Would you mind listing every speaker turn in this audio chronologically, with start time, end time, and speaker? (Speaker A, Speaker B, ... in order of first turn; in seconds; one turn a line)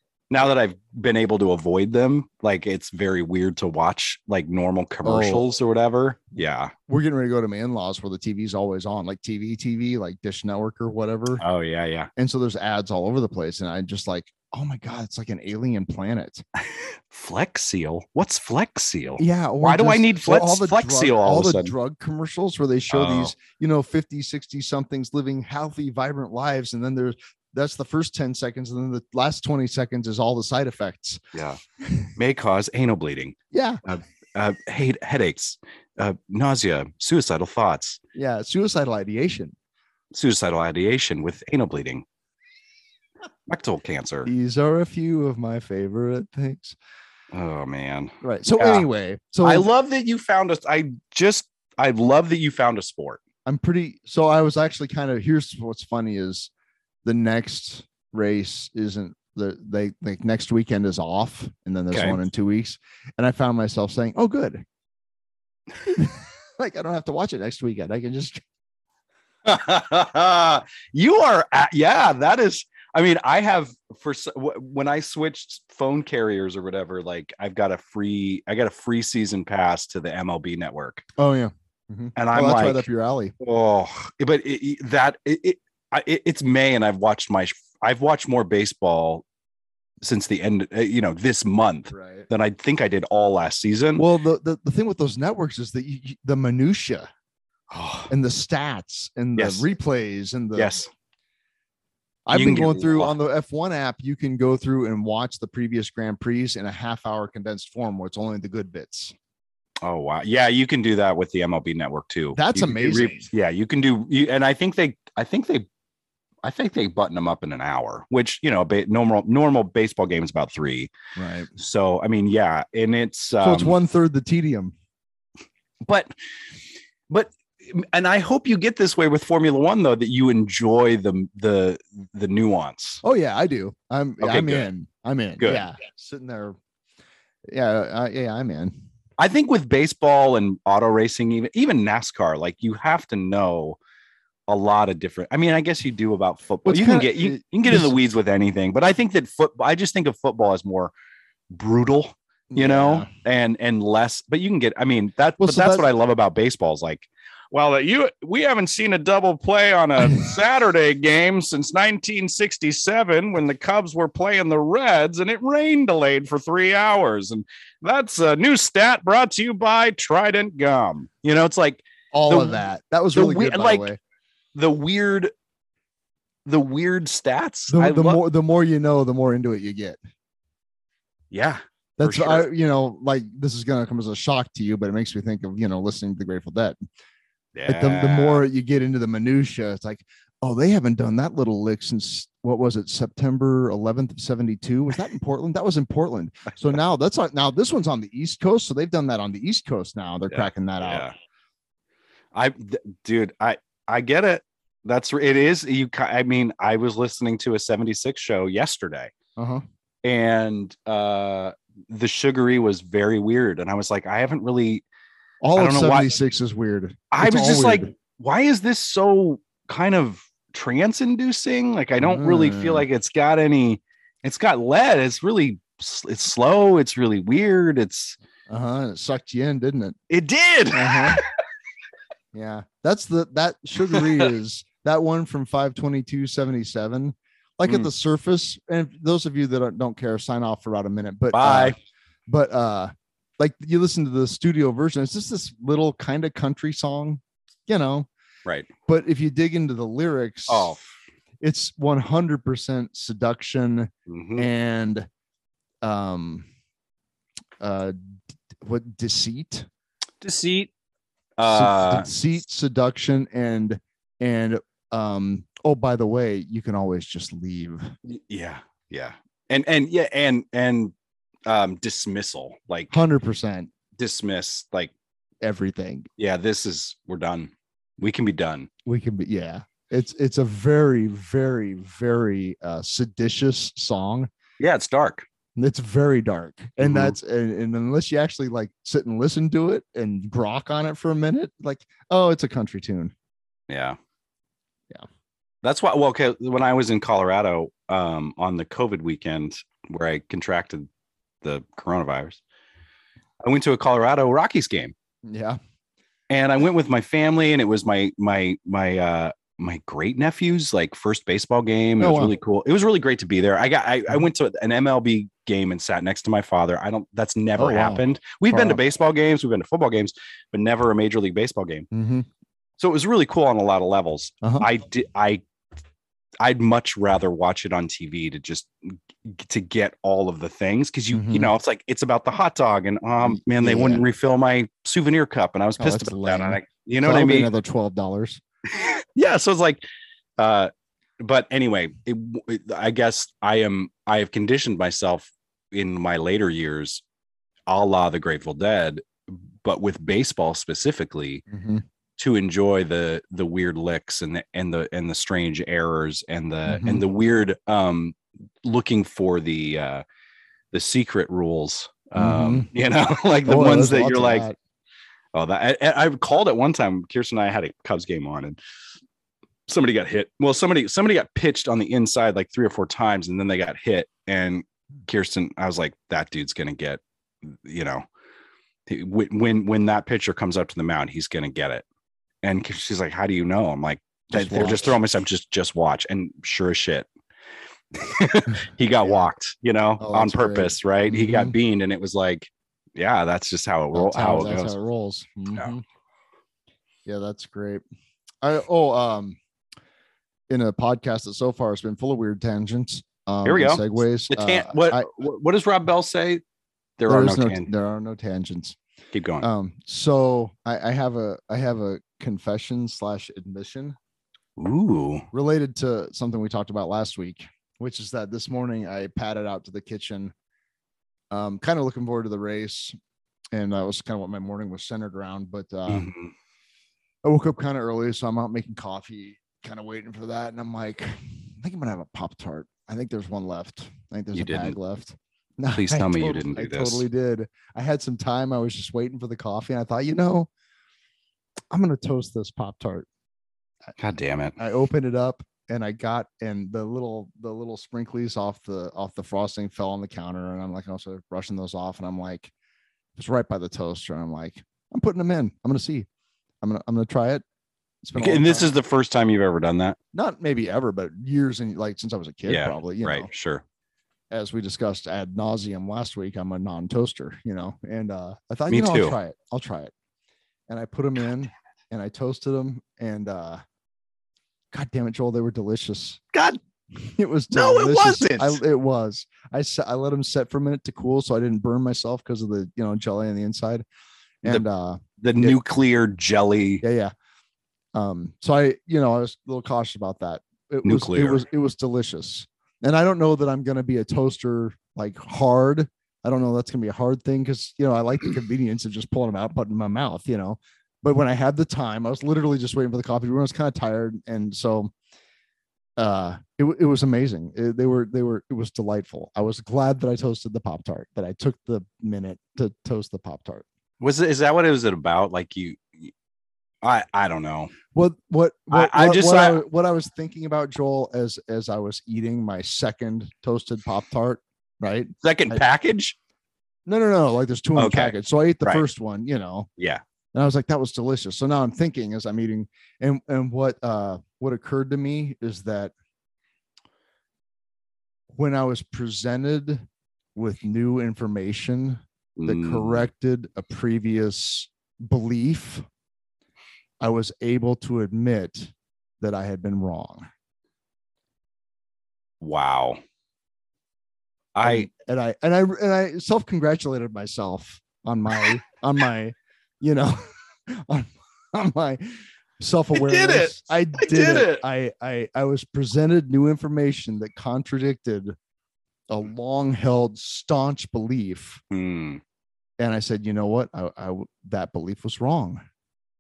Speaker A: 0.3-6.7
Speaker B: 5.0-5.4
Speaker B: 6.9-11.4
Speaker A: 11.4-12.1
Speaker B: 12.2-16.4
Speaker A: 16.7-21.8
Speaker B: 19.2-31.2
Speaker A: 22.9-23.3
Speaker A: 31.3-31.6
Speaker B: 31.8-32.1
Speaker A: 32.2-38.0
Speaker B: 33.5-33.8
Speaker B: 38.1-39.5
Speaker A: 40.1-42.0
Speaker A: 43.5-44.3
Speaker B: 44.2-46.8
Speaker A: 47.3-48.9
Speaker B: 48.2-49.7
Speaker A: 49.4-53.2
Speaker B: 53.5-56.5
Speaker B: 57.0-64.6
Speaker A: 61.9-62.2
Speaker B: 65.8-68.4
Speaker A: 69.4-81.1
Speaker B: 81.2-83.3
Speaker A: 82.2-82.9
Speaker A: 83.4-89.2
Speaker A: 90.0-94.0
Speaker B: 91.9-92.3
Speaker B: 94.0-97.1
Speaker A: 97.7-98.1
Speaker B: 98.1-100.8
Speaker A: 99.4-99.7
Speaker A: 100.5-100.9
Speaker B: 102.3-109.2
Speaker A: 102.3-103.2
Speaker A: 109.8-115.7
Speaker B: 112.3-113.3
Speaker A: 116.4-120.9
Speaker B: 121.2-121.5
Speaker A: 121.6-123.8
Speaker B: 123.4-124.7
Speaker A: 125.8-126.1
Speaker A: 127.1-133.0
Speaker B: 133.0-136.6
Speaker A: 134.2-134.7
Speaker A: 135.4-135.7
Speaker B: 137.5-138.8
Speaker A: 139.2-143.8
Speaker A: 144.5-150.9
Speaker B: 146.7-147.9
Speaker A: 151.5-172.6
Speaker B: 152.5-153.1
Speaker B: 155.4-155.9
Speaker B: 172.1-174.0
Speaker A: 173.2-173.9
Speaker A: 174.6-175.3
Speaker A: 176.5-178.2
Speaker B: 177.7-180.0
Speaker A: 181.3-182.5
Speaker B: 182.0-186.8
Speaker A: 187.6-188.5
Speaker B: 187.7-201.1
Speaker A: 200.3-201.1
Speaker A: 202.3-209.1
Speaker B: 209.4-209.6
Speaker A: 210.0-214.8
Speaker B: 215.4-217.9
Speaker A: 215.6-216.1
Speaker A: 217.1-228.2
Speaker B: 222.0-222.8
Speaker B: 228.5-230.0
Speaker A: 230.1-231.3
Speaker B: 230.7-231.2
Speaker B: 232.3-241.8
Speaker A: 233.9-234.2
Speaker A: 241.3-241.8
Speaker B: 242.3-248.1
Speaker B: 248.9-250.8
Speaker A: 250.5-250.9
Speaker B: 251.4-255.1
Speaker A: 254.1-254.5
Speaker B: 255.8-256.5
Speaker B: 257.6-257.9
Speaker B: 258.6-259.7
Speaker A: 260.2-260.7
Speaker A: 261.4-262.1
Speaker B: 261.5-267.9
Speaker A: 268.1-270.9
Speaker A: 271.5-272.9
Speaker B: 272.9-273.7
Speaker A: 274.0-274.9
Speaker B: 275.4-276.1
Speaker A: 276.2-278.7
Speaker B: 278.9-284.3
Speaker A: 284.6-285.3
Speaker B: 285.6-293.1
Speaker A: 286.8-287.2
Speaker A: 293.7-294.0
Speaker A: 295.6-300.9
Speaker A: 301.4-302.4
Speaker A: 303.4-304.9
Speaker B: 305.3-305.6
Speaker A: 306.3-321.9
Speaker B: 312.0-312.3
Speaker B: 317.6-318.8
Speaker B: 321.9-322.3
Speaker A: 322.8-325.4
Speaker B: 324.4-324.7
Speaker A: 326.4-337.5
Speaker B: 331.1-331.5
Speaker B: 333.2-334.1
Speaker B: 335.8-338.4
Speaker A: 338.7-339.8
Speaker A: 340.4-347.0
Speaker A: 347.7-351.4
Speaker B: 351.5-351.8
Speaker A: 352.2-360.0
Speaker B: 356.7-357.0
Speaker A: 360.7-364.4
Speaker B: 362.2-362.7
Speaker B: 363.5-364.6
Speaker A: 365.3-368.6
Speaker A: 369.7-378.1
Speaker A: 378.9-381.9
Speaker A: 382.4-387.1
Speaker B: 384.3-384.9
Speaker A: 387.9-394.8
Speaker B: 390.0-391.6
Speaker B: 393.9-395.8
Speaker B: 397.1-397.8
Speaker B: 398.4-399.4
Speaker B: 400.5-405.1
Speaker A: 403.4-406.4
Speaker A: 407.0-407.7
Speaker B: 407.1-408.8
Speaker A: 409.1-409.5
Speaker B: 409.4-414.0
Speaker A: 414.6-415.3
Speaker B: 415.3-420.3
Speaker B: 421.3-423.0
Speaker B: 423.5-426.1
Speaker A: 425.9-426.3
Speaker B: 427.2-440.5
Speaker A: 434.3-434.8
Speaker A: 435.7-437.1
Speaker B: 441.7-443.1
Speaker A: 444.0-444.6
Speaker B: 444.6-452.5
Speaker B: 453.2-456.1
Speaker B: 456.6-457.4
Speaker B: 458.0-458.7
Speaker A: 458.2-460.0
Speaker B: 460.1-463.3
Speaker A: 462.5-463.6
Speaker B: 464.3-469.9
Speaker A: 468.7-469.2
Speaker B: 470.7-473.6
Speaker B: 474.7-476.2
Speaker A: 476.3-476.6
Speaker B: 477.0-483.9
Speaker A: 477.5-478.6
Speaker B: 484.4-485.6
Speaker A: 485.2-486.8
Speaker B: 486.8-487.1
Speaker B: 487.9-504.9
Speaker A: 490.8-491.4
Speaker B: 506.0-513.6
Speaker A: 514.0-516.1
Speaker A: 516.8-517.7
Speaker B: 517.9-525.6
Speaker A: 518.7-519.6
Speaker A: 525.2-526.2
Speaker B: 526.9-529.7
Speaker A: 527.8-528.8
Speaker B: 530.3-535.9
Speaker B: 538.3-539.8
Speaker B: 540.4-545.9
Speaker A: 542.4-543.1
Speaker B: 547.0-550.3
Speaker A: 552.4-553.0
Speaker A: 554.5-554.9
Speaker B: 554.6-568.4
Speaker A: 562.9-564.6
Speaker B: 569.1-571.6
Speaker A: 571.7-572.2
Speaker B: 572.8-575.6